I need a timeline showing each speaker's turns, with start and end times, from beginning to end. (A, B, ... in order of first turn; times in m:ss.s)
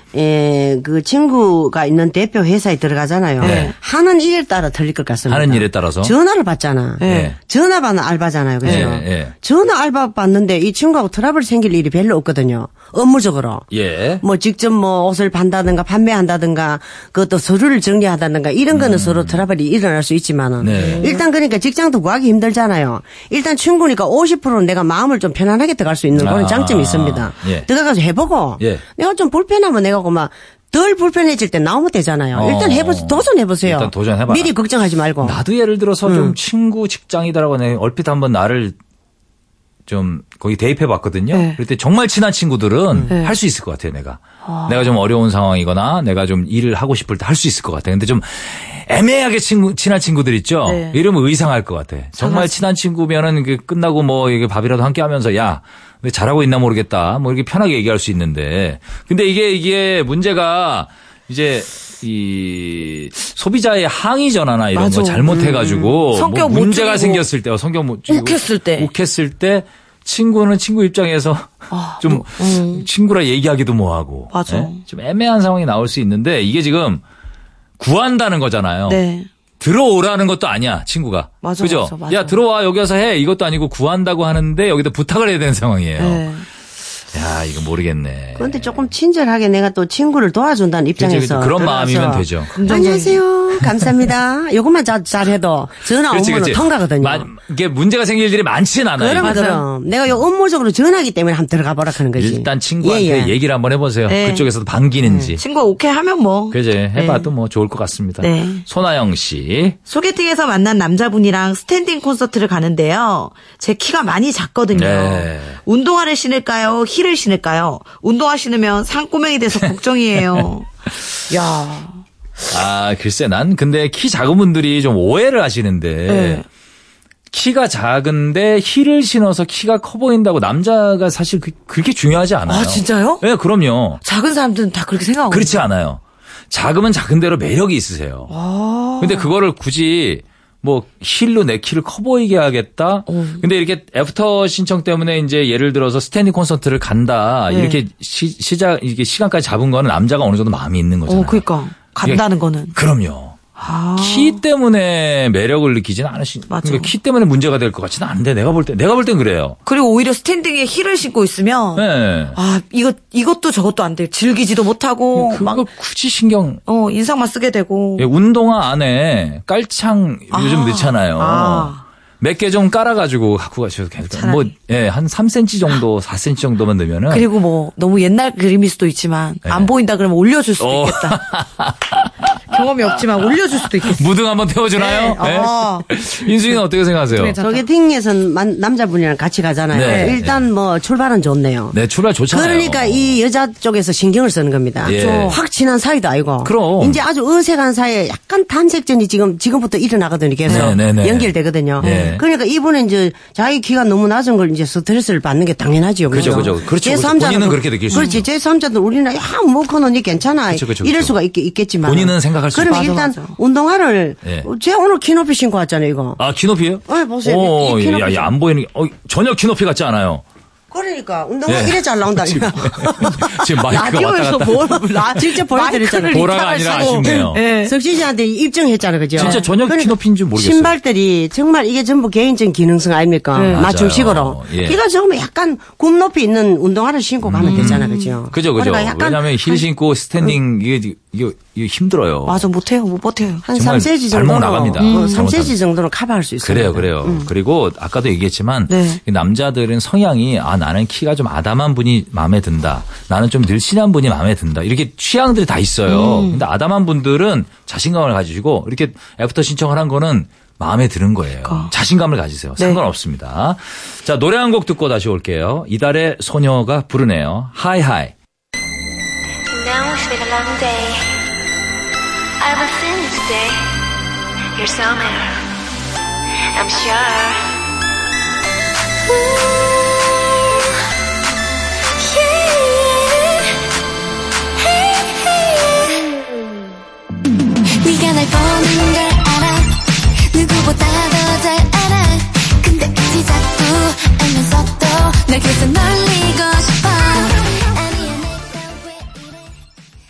0:00.1-0:13.6 A
0:03.4-0:03.7 B
0:03.4-0:03.7 C
0:05.3-0:06.1 B
0:07.0-0:07.3 C
0:07.0-0:07.4 B
0:08.6-0:08.9 C
0:08.6-0:09.3 B
0:13.7-0:14.2 B
0:14.2-0:35.4 A
0:18.7-0:19.4 B
0:20.6-0:21.1 B
0:20.7-0:21.2 C
0:26.1-0:27.7 B
0:32.3-0:34.5 B
0:35.2-0:38.7 B
0:36.0-0:36.4 A
0:39.9-1:17.0 B
0:41.3-0:41.6 C
0:43.1-0:43.3 C
0:44.4-0:44.9 C
0:50.6-0:51.0 C
0:52.2-0:52.6 C
1:04.7-1:07.2 C
1:08.1-1:08.9 C
1:11.7-1:12.9 C
1:14.3-1:14.8 C
1:17.8-1:19.0 B
1:18.9-1:19.3 C
1:19.6-1:26.3 B
1:21.4-1:22.4 C
1:26.0-1:26.4 C
1:27.1-1:28.9 B
1:28.4-1:37.3 A
1:31.0-1:32.8 B
1:32.5-1:33.2 C
1:33.6-1:33.9 B
1:36.1-1:39.4 B
1:39.0-1:43.3 A
1:39.2-1:39.6 C
1:42.1-1:45.4 B
1:44.1-1:44.4 C
1:45.0-1:45.3 A
1:45.4-1:47.3 C
1:46.5-1:49.8 B
1:48.2-1:48.6 C
1:49.9-2:00.7 C
1:54.7-1:55.6 B
2:01.3-2:02.0 C
2:02.5-2:06.4 B
2:06.1-2:06.4 C
2:07.3-2:14.0 B
2:12.5-2:13.2 C
2:14.0-2:15.6 C
2:15.3-2:18.3 B
2:18.3-2:19.3 C
2:19.0-2:31.4 B
2:23.1-2:23.4 C
2:27.5-2:27.8 C
2:31.1-2:32.7 C
2:32.7-2:33.4 B
2:33.6-2:34.4 C
2:34.0-2:39.6 B
2:36.5-2:36.9 C
2:39.6-2:45.6 C
2:41.8-2:42.4 B
2:45.1-2:46.6 B
2:46.7-2:48.0 C
2:48.0-2:57.3 B
2:50.3-2:51.8 C
2:54.1-2:54.5 C
2:57.1-3:01.2 C
2:59.4-2:59.7 B
3:00.6-3:02.3 B
3:02.5-3:04.0 C
3:03.8-3:07.4 B
3:04.8-3:05.9 C
3:07.1-3:07.6 C
3:07.4-3:11.8 A
3:09.7-3:10.5 B
3:09.8-3:10.2 C
3:11.7-3:13.2 B
3:12.3-3:36.2 A
3:14.8-3:15.4 B
3:14.9-3:15.4 C
3:16.4-3:17.0 B
3:20.4-3:22.2 B
3:20.5-3:20.8 C
3:21.8-3:22.2 C
3:26.1-3:28.2 B
3:26.2-3:26.5 C
3:27.9-3:28.2 C
3:30.5-3:31.1 B
3:31.8-3:33.0 B
3:32.6-3:33.4 C
3:36.2-3:40.2 B
3:36.8-3:38.3 A
3:40.7-3:43.4 A
3:41.5-3:45.2 B
3:43.6-3:47.7 C
3:45.1-3:59.3 A
3:45.9-3:47.4 B
3:49.1-3:50.7 B
3:49.2-3:49.5 C
3:53.3-3:53.7 C
3:53.5-3:54.8 B
3:57.2-4:02.4 B
3:57.4-3:58.2 C
4:02.2-4:03.4 C
4:03.4-4:07.3 A
4:03.5-4:05.6 B
4:04.8-4:05.2 C
4:06.4-4:28.1 B
4:08.7-4:09.0 C
4:15.8-4:16.4 C
4:21.4-4:21.7 C
4:29.5-4:31.3 D
4:32.4-4:33.8 D
4:34.6-4:35.5 D
4:36.5-4:37.6 D
4:39.1-4:40.6 D
4:42.0-4:43.5 D
4:44.6-4:46.2 D
4:47.8-4:59.6 D